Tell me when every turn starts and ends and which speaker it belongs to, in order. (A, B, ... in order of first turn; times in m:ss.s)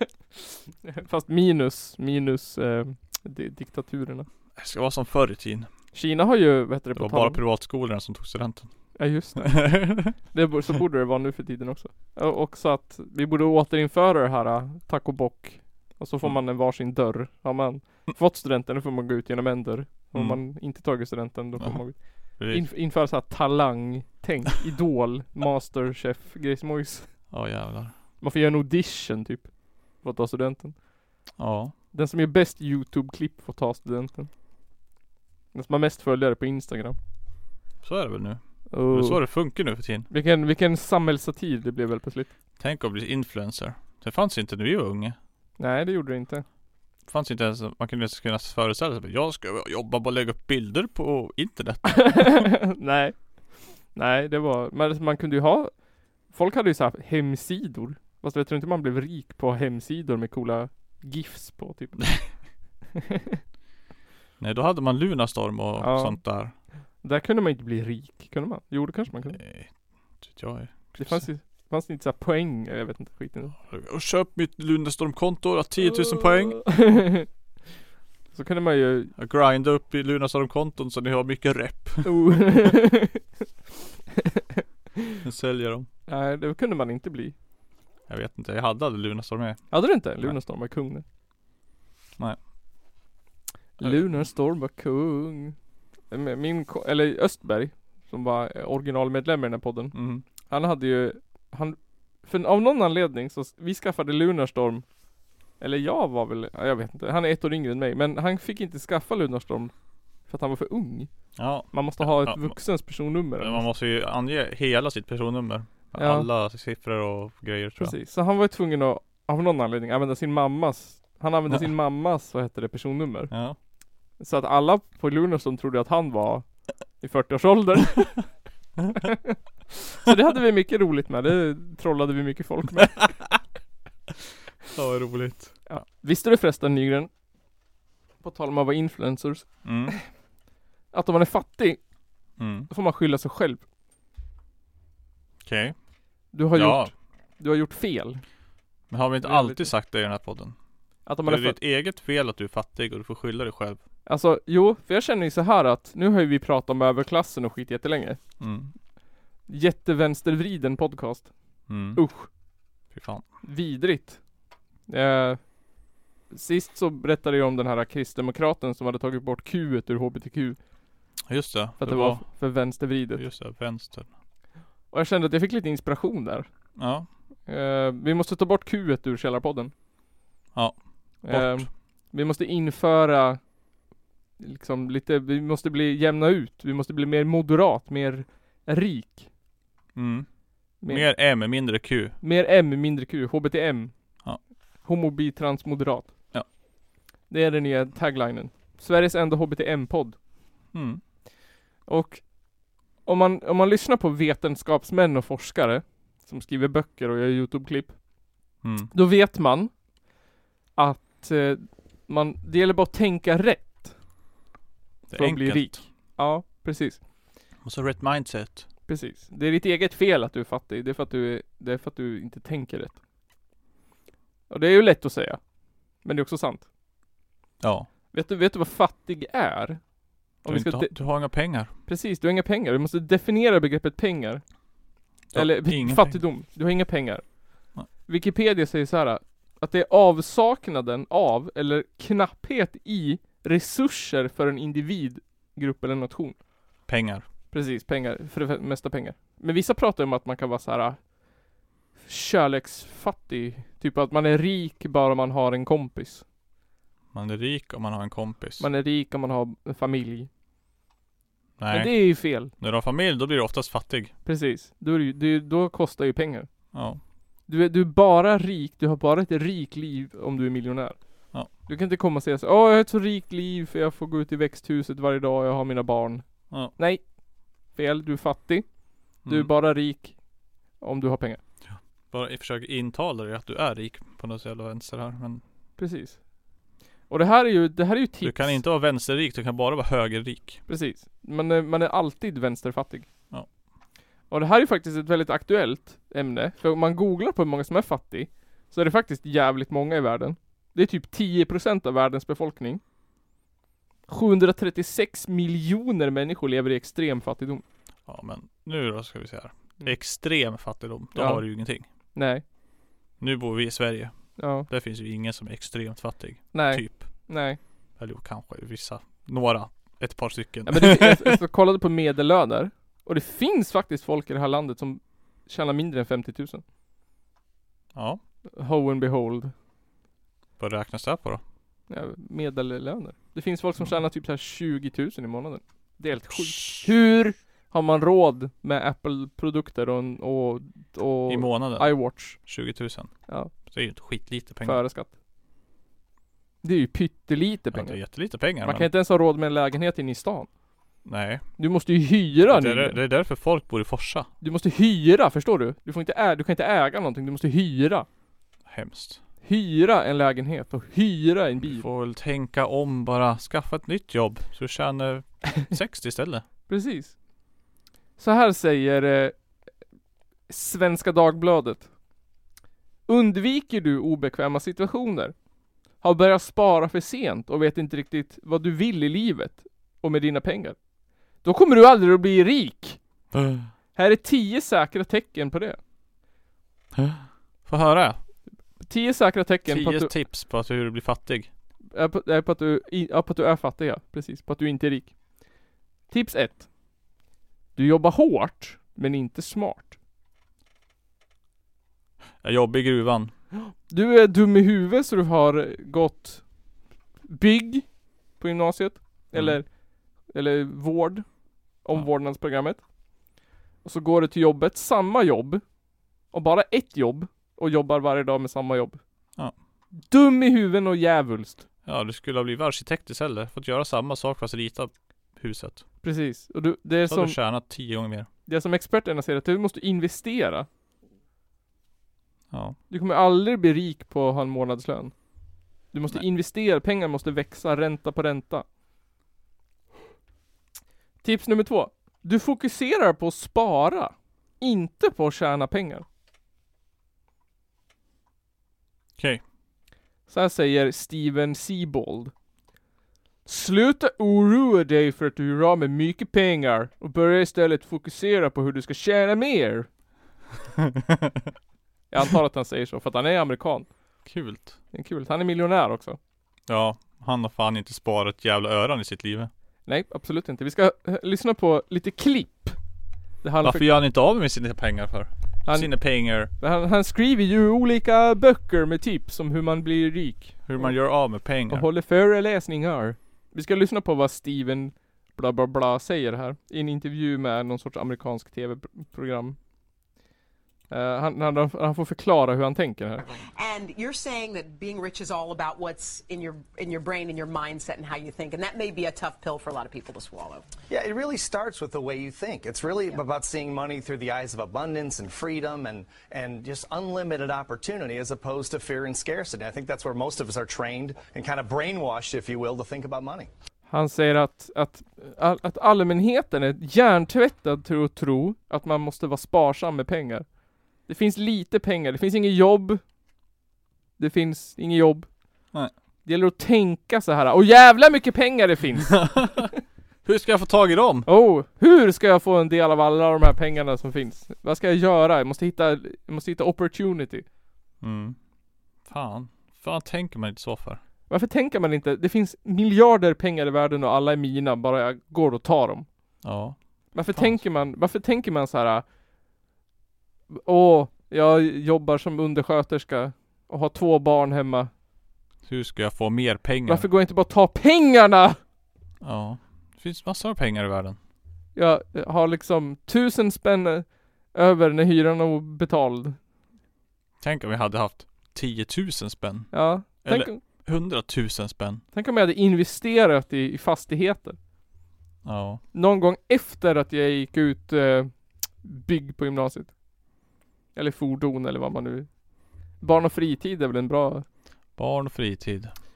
0:00.8-0:04.3 A
0:04.6-0:05.7 B
0:05.9-0:07.4 A
0:07.0-0:10.1 B
0:09.0-0:27.3 A
0:20.1-0:20.4 B
0:21.6-0:22.7 B
0:27.3-0:28.0 B
0:28.2-0:30.8 A
0:31.4-0:31.7 B
0:31.9-0:34.3 A
0:35.5-0:37.0 A
0:37.8-0:40.1 B
0:38.7-0:42.3 A
0:42.6-0:45.2 B
0:45.6-0:46.4 A
0:47.1-0:52.5 B
0:52.1-1:02.3 A
1:04.4-1:06.5 B
1:05.8-1:06.2 A
1:07.0-1:09.4 A
1:09.2-1:11.3 B
1:11.0-1:13.6 A
1:13.6-1:16.7 B
1:15.8-1:17.3 A
1:18.3-1:19.1 A
1:19.2-1:22.1 B
1:22.0-1:23.2 A
1:25.2-1:25.9 B
1:26.1-1:27.4 A
1:28.1-1:30.4 B
1:29.7-1:31.0 A
1:33.8-1:35.6 A
1:33.8-1:34.3 B
1:36.1-1:44.9 A
1:39.9-1:40.2 B
1:45.6-1:49.7 A
1:50.2-1:51.1 A
1:51.4-1:52.6 B
1:51.7-1:53.7 A
1:53.4-1:58.0 B
1:56.0-1:56.3 A
1:57.8-2:03.3 A
2:03.3-2:03.6 B
2:04.2-2:06.5 A
2:07.0-2:08.3 A
2:10.0-2:13.1 A
2:14.7-2:15.6 B
2:15.7-2:17.1 A
2:18.2-2:20.0 A
2:19.6-2:20.0 B
2:20.9-2:21.8 A
2:22.4-2:22.7 B
2:22.7-2:23.6 A
2:25.4-2:25.8 B
2:26.3-2:28.2 A
2:26.5-2:26.9 B
2:28.9-2:30.6 B
2:29.2-2:29.7 A
2:31.1-2:31.6 A
2:31.2-2:33.8 B
2:34.1-2:38.2 A
2:38.4-2:38.7 B
2:39.5-2:41.3 A
2:41.7-2:42.0 B
2:41.9-2:42.3 A
2:42.9-2:43.3 B
2:43.4-2:44.2 A
2:44.9-2:45.5 A
2:46.3-2:50.6 A
2:51.3-2:54.1 B
2:51.8-2:53.2 A
2:54.9-2:56.5 A
2:56.8-2:57.1 B
2:57.5-2:59.7 A
3:00.6-3:01.7 B
3:01.2-3:03.4 A
3:04.4-3:09.3 A
3:10.0-3:10.3 B
3:10.8-3:11.1 A
3:10.9-3:12.2 B
3:12.2-3:13.9 A
3:14.8-3:16.1 A
3:17.3-3:20.2 A
3:20.7-3:21.0 B
3:21.9-3:22.3 A
3:23.0-3:28.0 A
3:28.6-3:28.9 B
3:28.9-3:29.7 A
3:30.8-3:34.0 A
3:35.1-3:35.9 B
3:35.2-3:37.0 A
3:37.6-3:38.7 B
3:38.9-3:43.0 A
3:44.5-3:45.4 A
3:46.0-3:46.7 A
3:47.6-3:47.9 B
3:48.1-3:49.8 A
3:50.4-3:51.3 A
3:50.5-3:51.7 B
3:51.8-3:54.4 A
3:55.3-3:56.2 B
3:55.3-3:57.4 A
3:58.1-4:06.4 A
4:06.9-4:07.3 B
4:07.5-4:11.0 A
4:12.0-4:16.2 A
4:17.1-4:18.7 B
4:18.6-4:20.3 A
4:21.6-4:24.1 B
4:21.7-4:22.5 A
4:24.2-4:26.5 A
4:26.7-4:27.0 B
4:27.5-4:31.0 A
4:31.7-4:37.0 A
4:37.7-4:38.7 A
4:39.2-4:40.2 A
4:39.2-4:39.5 B
4:40.8-4:41.4 A
4:41.6-4:45.4 B
4:45.8-4:46.2 A
4:47.1-4:48.6 A
4:48.2-4:50.6 B
4:50.7-4:53.1 A
4:54.3-5:02.8 A
5:04.1-5:07.6 A
5:08.1-5:11.8 B
5:11.2-5:11.5 A
5:12.1-5:12.4 A
5:13.2-5:17.3 B
5:14.4-5:14.7 A
5:16.5-5:17.6 A
5:18.0-5:21.4 B
5:20.7-5:26.6 A
5:27.9-5:28.2 B
5:28.5-5:29.5 A
5:30.6-5:31.4 B
5:31.9-5:42.4 A
5:36.5-5:36.8 B
5:41.3-5:43.1 B
5:43.6-5:44.8 B
5:44.6-5:45.1 A
5:46.6-5:50.5 A
5:47.7-5:48.9 B
5:51.0-5:51.5 B
5:51.6-5:53.0 A
5:52.5-5:54.3 B
5:54.4-5:58.1 A
5:58.7-5:59.2 B
5:59.4-6:01.9 A
6:01.6-6:06.4 B
6:06.7-6:07.2 A
6:08.2-6:09.4 A
6:10.5-6:11.9 A
6:13.1-6:15.3 A
6:16.0-6:20.8 A
6:21.4-6:23.0 A
6:23.3-6:23.7 B
6:24.0-6:25.8 A
6:27.0-6:28.2 B
6:28.8-6:30.2 A
6:29.7-6:31.5 B
6:31.9-6:35.2 A
6:36.1-6:36.7 A
6:37.8-6:39.9 A
6:42.4-6:43.3 B
6:43.6-6:46.4 A
6:47.3-6:49.7 A
6:49.3-6:49.6 B
6:50.3-6:51.3 A
6:51.8-6:52.8 A
6:53.8-6:55.6 A
6:56.3-6:59.0 A
7:00.0-7:01.6 A
7:01.8-7:05.8 B
7:06.0-7:07.4 A
7:07.0-7:08.3 B
7:08.5-7:10.7 A
7:12.5-7:12.8 B
7:12.9-7:15.2 A
7:15.9-7:18.6 A
7:21.2-7:26.0 A
7:30.3-7:32.3 A
7:33.5-7:39.9 A
7:42.1-7:43.9 A
7:44.2-7:44.8 B
7:44.9-7:46.2 A
7:46.7-7:49.5 B
7:49.9-7:52.8 A
7:53.4-7:53.9 A
7:53.6-7:56.5 B
7:55.7-8:01.0 A
8:00.6-8:01.9 B
8:01.7-8:09.6 A
8:10.9-8:13.2 A
8:13.6-8:20.7 C
8:20.9-8:33.5 D
8:33.9-8:40.5 A
8:41.1-8:43.0 A
8:44.2-8:45.3 A
8:46.2-8:49.8 A
8:49.1-8:49.7 B
8:50.2-8:51.3 B
8:51.3-8:57.4 A
8:58.0-8:58.4 B
8:59.0-9:01.0 B
9:01.3-9:06.1 A
9:06.4-9:07.6 B
9:07.1-9:09.0 A
9:10.5-9:14.9 A
9:15.7-9:17.1 B
9:16.9-9:18.6 A
9:19.2-9:21.2 B
9:21.8-9:26.4 A
9:27.4-9:32.0 B
9:29.7-9:30.6 A
9:32.1-9:34.6 A
9:35.4-9:35.8 B
9:35.9-9:39.9 A
9:41.0-9:42.3 A
9:43.0-9:44.4 A
9:45.0-9:45.9 B